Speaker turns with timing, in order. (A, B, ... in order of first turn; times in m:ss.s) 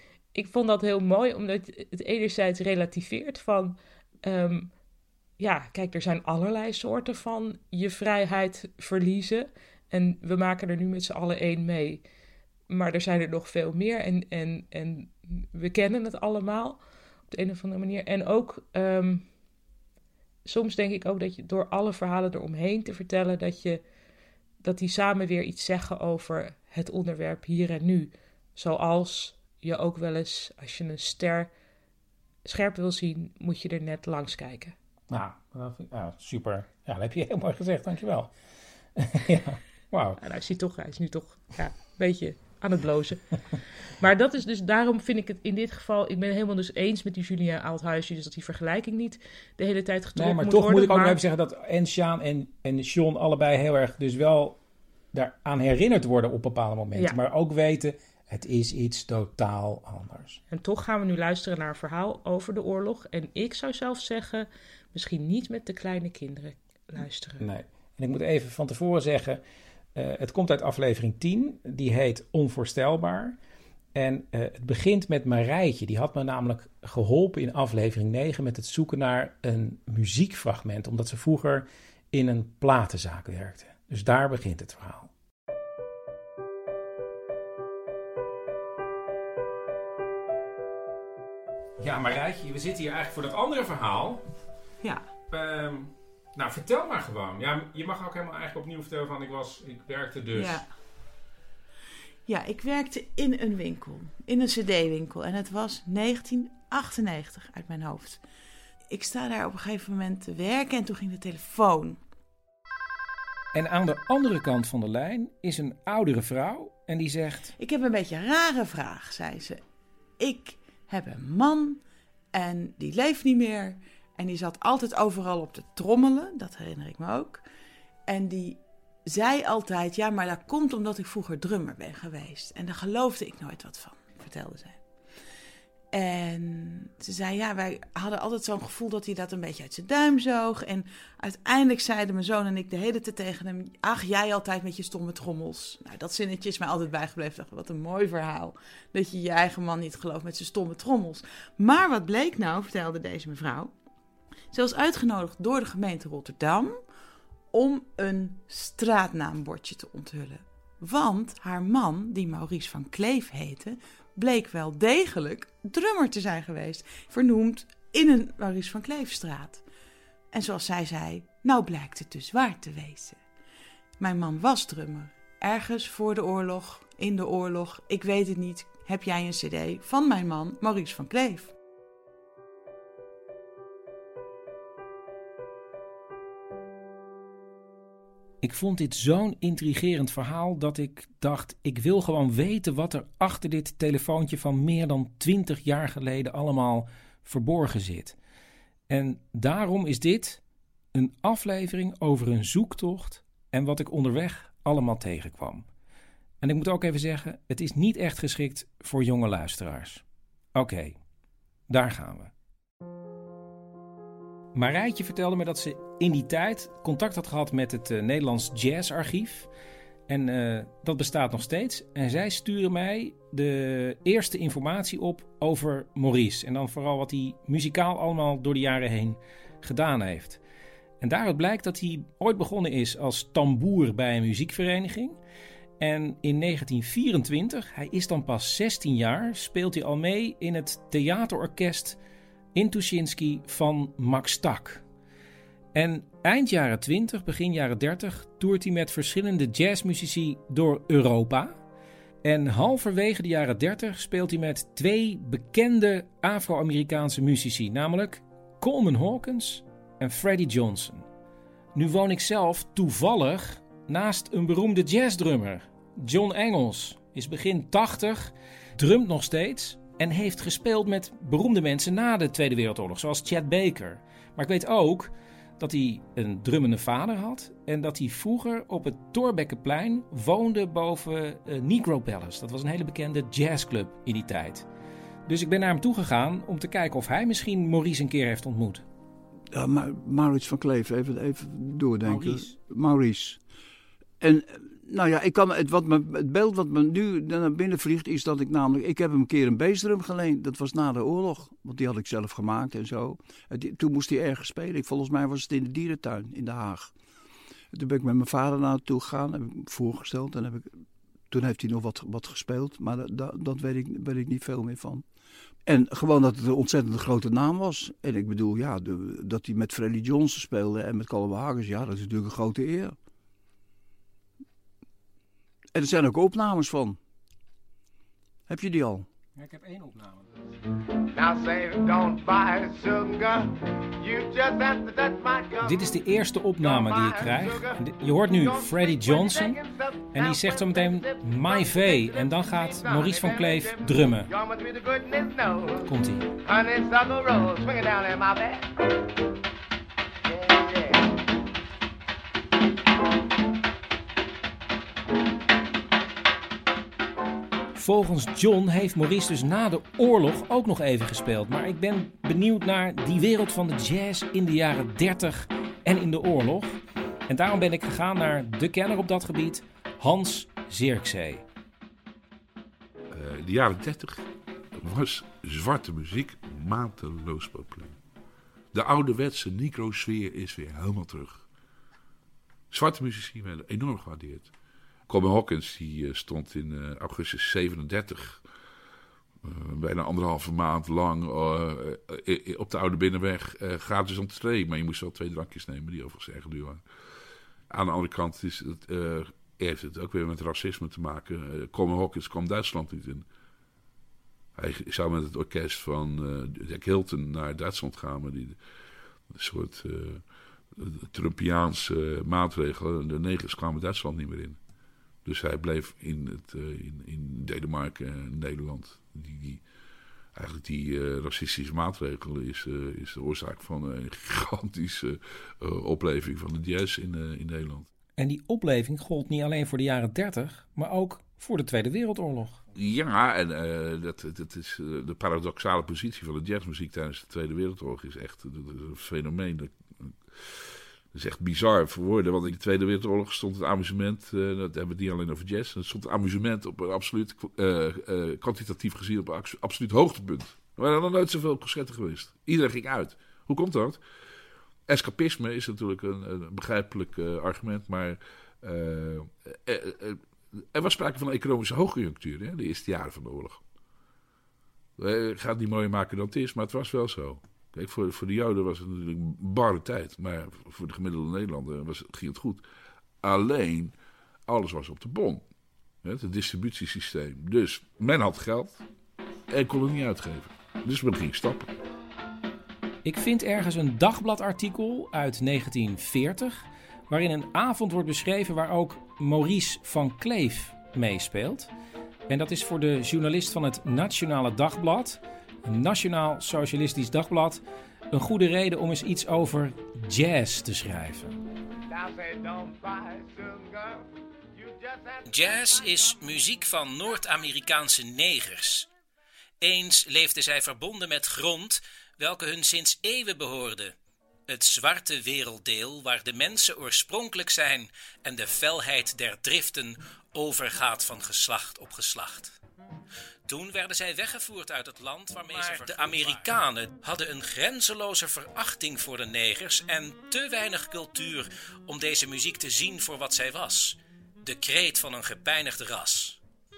0:00.3-0:04.7 A
0:05.4-0:12.0 A
0:12.7-0:19.3 A
0:20.4-0:23.8 A
0:24.6-0:31.5 A
0:32.4-0:34.8 A
0:35.1-0:38.3 B
0:39.0-0:40.2 B
0:40.2-0:43.2 A
0:44.0-0:51.2 A
0:50.2-0:54.6 B
0:55.1-1:00.4 B
1:00.5-1:07.4 A
1:07.4-1:09.4 B
1:10.0-1:13.4 B
1:14.0-1:25.1 B
1:31.8-1:34.2 B
1:35.3-1:40.6 B
1:40.3-1:40.6 C
1:42.3-1:48.2 C
1:48.9-1:52.0 C
1:53.5-1:57.5 B
1:57.6-1:59.6 C
2:00.2-2:01.8 C
2:02.3-2:07.4 C
2:08.1-2:15.1 C
2:15.9-2:33.8 C
2:34.5-2:36.9 C
2:37.5-2:49.6 C
2:50.3-2:53.2 C
2:54.0-3:01.5 C
3:08.4-3:18.2 B
3:18.9-3:20.4 B
3:20.9-3:25.7 B
3:26.4-3:30.0 B
3:30.6-3:31.0 B
3:31.7-3:32.3 B
3:34.6-3:39.5 B
3:40.1-3:50.4 B
3:51.0-3:55.2 B
3:55.8-4:02.0 B
4:02.6-4:04.8 B
4:05.7-4:11.6 B
4:12.2-4:21.1 B
4:21.8-4:44.7 B
4:45.3-4:48.8 B
4:49.5-4:53.4 D
4:52.0-4:52.6 B
4:54.2-5:06.9 D
5:07.7-5:10.8 D
5:11.3-5:15.0 D
5:15.7-5:23.0 D
5:25.8-5:27.0 D
5:28.5-5:29.1 D
5:29.4-5:30.3 B
5:31.2-5:35.6 E
5:35.6-5:39.6 B
5:36.8-5:37.5 E
5:40.1-5:44.3 B
5:42.9-5:43.5 E
5:44.3-5:45.8 E
5:45.8-5:46.3 B
5:46.5-5:48.6 E
5:50.5-5:50.9 E
5:57.8-6:11.4 B
6:13.1-6:18.0 F
6:18.7-6:21.5 F
6:22.7-6:24.5 F
6:25.1-6:28.5 F
6:29.4-6:36.9 F
6:37.7-6:43.3 F
6:44.6-6:48.6 F
6:49.3-6:54.6 F
6:55.2-6:59.7 F
7:00.3-7:07.9 F
7:08.2-7:12.6 B
7:12.8-7:34.0 F
7:34.9-7:40.2 F
7:40.7-7:43.6 F
7:45.0-7:52.6 F
7:53.2-7:55.5 F
7:56.0-7:58.8 F
7:59.5-8:01.7 F
8:03.0-8:11.7 B
8:12.3-8:21.4 B
8:21.9-8:24.0 E
8:24.6-8:25.7 E
8:25.3-8:28.9 B
8:29.6-8:34.0 B
8:34.5-8:42.6 B
8:43.5-8:56.4 B